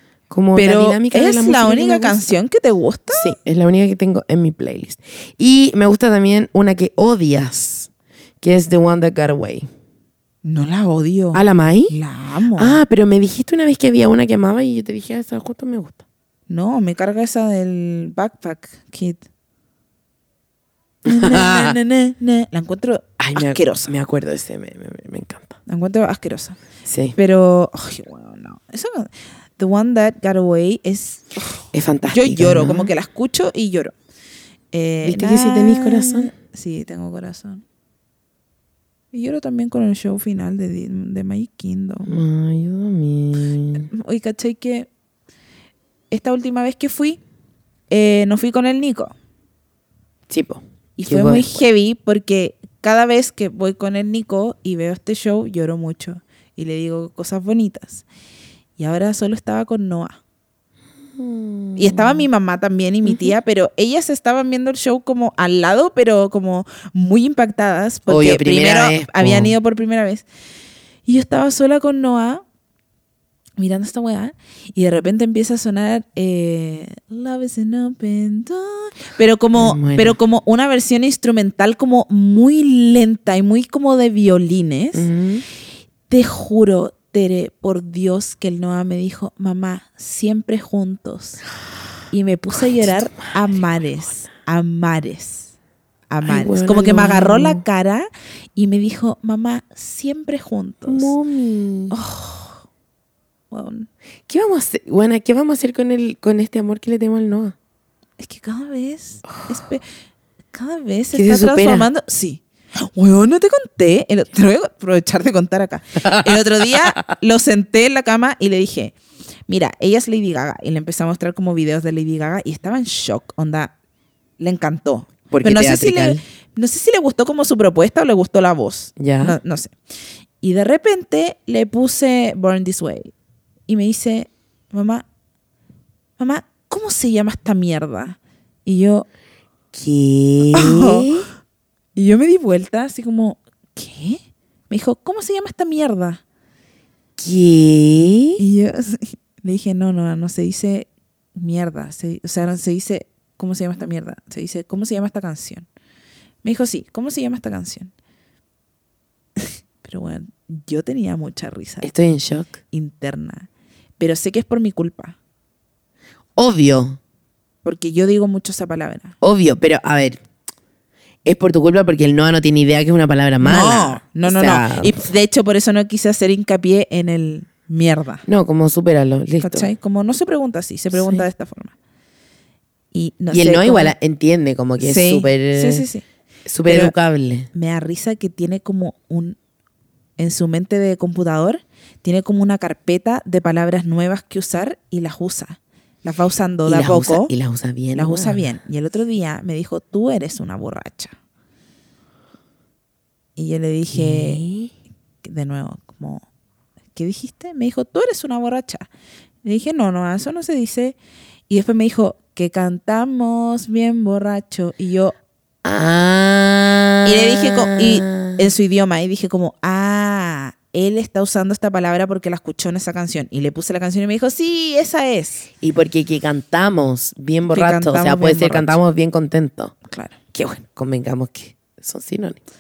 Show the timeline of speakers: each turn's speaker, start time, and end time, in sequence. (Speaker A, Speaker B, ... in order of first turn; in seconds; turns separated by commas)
Speaker A: 0.3-2.2, Speaker B: 0.6-3.3, Speaker A: 3.1-7.9, Speaker A: 8.4-9.7, Speaker B: 10.4-12.8, Speaker A: 11.3-11.9, Speaker A: 12.6-16.0, Speaker B: 16.5-19.2, Speaker A: 21.1-21.8, Speaker B: 21.1-23.9, Speaker A: 23.2-25.6, Speaker B: 25.7-26.6, Speaker A: 26.9-27.1, Speaker B: 27.1-31.4, Speaker A: 31.7-32.9, Speaker B: 32.1-33.9, Speaker B: 34.7-37.6, Speaker A: 35.0-36.3, Speaker B: 39.1-42.1, Speaker A: 42.1-43.9, Speaker B: 43.9-44.9, Speaker B: 46.1-47.2, Speaker B: 47.9-49.1, Speaker A: 50.3-51.6, Speaker B: 51.0-58.0, Speaker B: 58.8-60.2, Speaker A: 61.1-62.2, Speaker B: 61.8-70.3, Speaker A: 63.0-63.4, Speaker A: 68.1-69.5, Speaker B: 71.0-72.4, Speaker B: 73.6-85.1, Speaker A: 79.6-80.2, Speaker A: 85.0-85.5, Speaker B: 86.1-91.4, Speaker B: 92.1-95.5, Speaker A: 92.7-93.6, Speaker B: 96.1-101.1, Speaker A: 96.2-97.6, Speaker A: 100.9-102.0, Speaker B: 101.9-102.6, Speaker B: 103.5-103.9, Speaker A: 104.3-107.5, Speaker B: 108.2-109.8, Speaker B: 110.5-112.4, Speaker A: 111.1-111.9, Speaker B: 113.0-119.0, Speaker A: 116.0-116.3, Speaker B: 119.5-123.7, Speaker B: 124.4-129.7, Speaker A: 125.3-126.2, Speaker A: 129.0-129.4, Speaker B: 130.4-133.1, Speaker B: 133.7-135.1, Speaker B: 136.2-139.1, Speaker A: 139.7-141.3, Speaker B: 140.5-141.3, Speaker B: 141.9-146.2, Speaker A: 147.2-148.4, Speaker B: 148.4-155.7, Speaker B: 156.4-157.9, Speaker B: 159.4-161.9, Speaker A: 161.8-162.6, Speaker B: 162.7-163.5, Speaker B: 164.0-165.2, Speaker A: 166.4-167.0, Speaker B: 167.6-169.1, Speaker A: 169.2-170.2, Speaker A: 171.2-175.0, Speaker B: 173.4-178.2, Speaker A: 178.3-179.7, Speaker B: 179.4-181.7, Speaker A: 180.9-181.2, Speaker B: 182.9-183.9, Speaker A: 183.3-185.8, Speaker B: 184.8-186.0, Speaker A: 186.4-187.5, Speaker B: 186.7-186.9, Speaker B: 187.5-189.4, Speaker B: 190.2-197.3, Speaker A: 196.7-198.4, Speaker B: 197.9-201.1, Speaker B: 203.4-204.4, Speaker A: 203.9-204.7, Speaker B: 205.2-206.2, Speaker B: 206.9-208.9, Speaker B: 209.4-211.0, Speaker B: 211.5-215.2, Speaker A: 215.6-218.4, Speaker B: 217.1-225.5, Speaker A: 225.6-229.8, Speaker B: 227.5-228.8, Speaker B: 229.9-230.1, Speaker A: 230.3-232.4